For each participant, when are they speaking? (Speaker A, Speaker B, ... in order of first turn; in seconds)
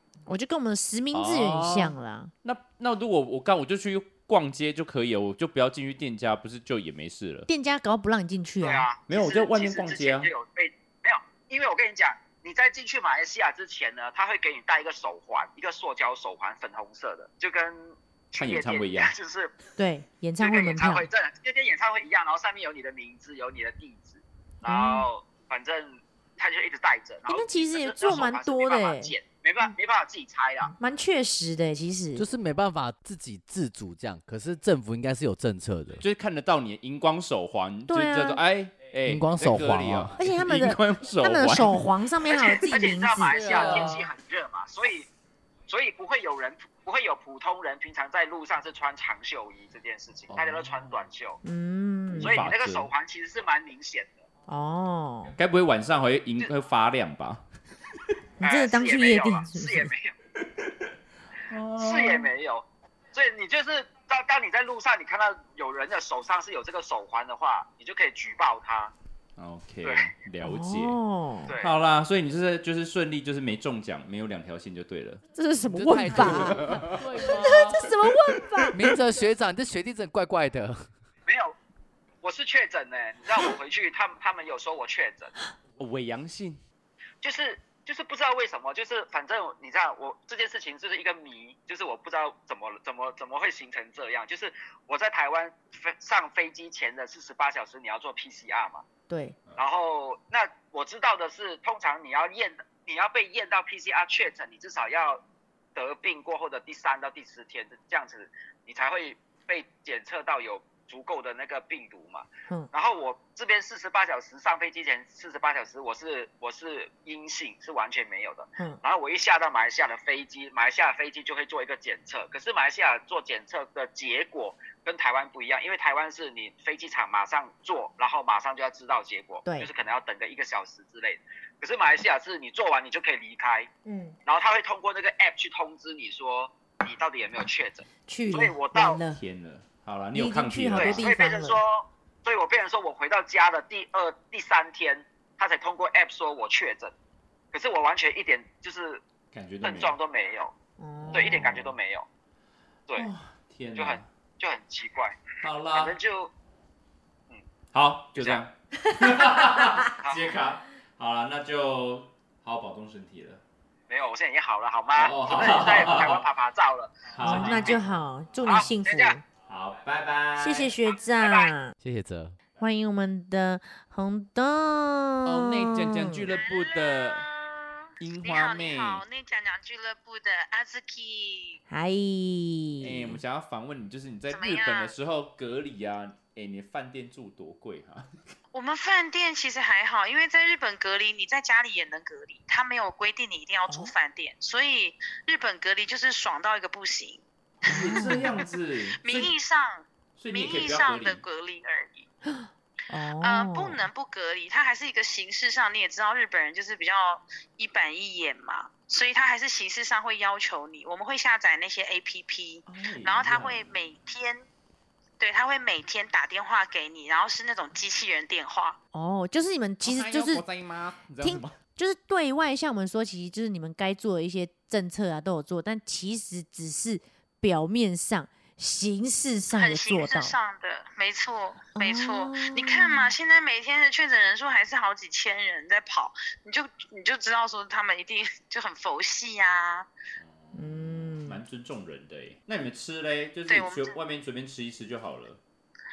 Speaker A: 0.3-2.3, 7.5-8.9, 19.8-21.1, 24.6-25.1, 27.3-29.1, 30.8-32.2, 37.9-38.4, 40.2-43.8, 51.4-52.4, 54.5-55.3, 58.4-59.9, 70.4-71.5, 75.3-78.8, 99.1-99.3, 129.4-129.7, 133.8-134.2, 138.1-139.2, 140.1-141.6, 150.8-151.4, 158.9-159.8, 167.2-169.2, 170.4-171.7, 172.6-176.2, 181.7-183.2, 193.7-193.9, 197.7-198.3, 202.2-203.8, 218.9-220.4, 221.2-230.3, 231.7-233.1, 240.5-241.4
Speaker B: 1.1-7.5, 9.1-10.3, 18.4-19.1, 36.0-41.8, 43.6-43.9, 50.3-50.8, 52.1-52.9, 55.4-57.4, 61.5-62.3, 69.4-71.0, 71.5-75.2, 76.2-77.8, 85.8-86.6, 139.1-141.1, 149.3-149.9, 151.0-151.8, 152.9-154.1, 155.4-155.9, 157.7-163.4, 164.9-166.2, 167.1-167.8, 169.5-170.7, 175.2-177.2, 178.0-179.0, 182.8-188.1, 197.6-199.3, 200.2-201.2, 212.7-213.8, 219.8-221.6, 240.2-245.4
Speaker C: 8.6-19.5, 20.4-30.7, 42.3-45.1, 45.7-51.4, 52.2-54.2, 58.4-60.1, 61.8-68.9, 69.8-70.1, 81.3-81.5, 82.2-85.3, 87.2-98.8, 99.6-105.2, 105.7-133.7, 134.2-139.0, 140.7-146.9, 147.5-149.0, 149.6-150.5, 151.1-152.1, 153.7-156.3, 158.2-158.4, 160.0-160.3, 163.9-167.8, 168.4-169.2, 171.2-171.5
Speaker D: 32.1-36.0, 39.0-40.2, 43.3-44.1, 75.7-77.9, 78.7-80.9, 171.8-172.3
Speaker E: 176.3-181.6, 184.3-184.9, 188.5-198.4, 199.0-202.1, 203.2-214.4, 215.2-218.8, 229.5-239.9, 243.5-243.9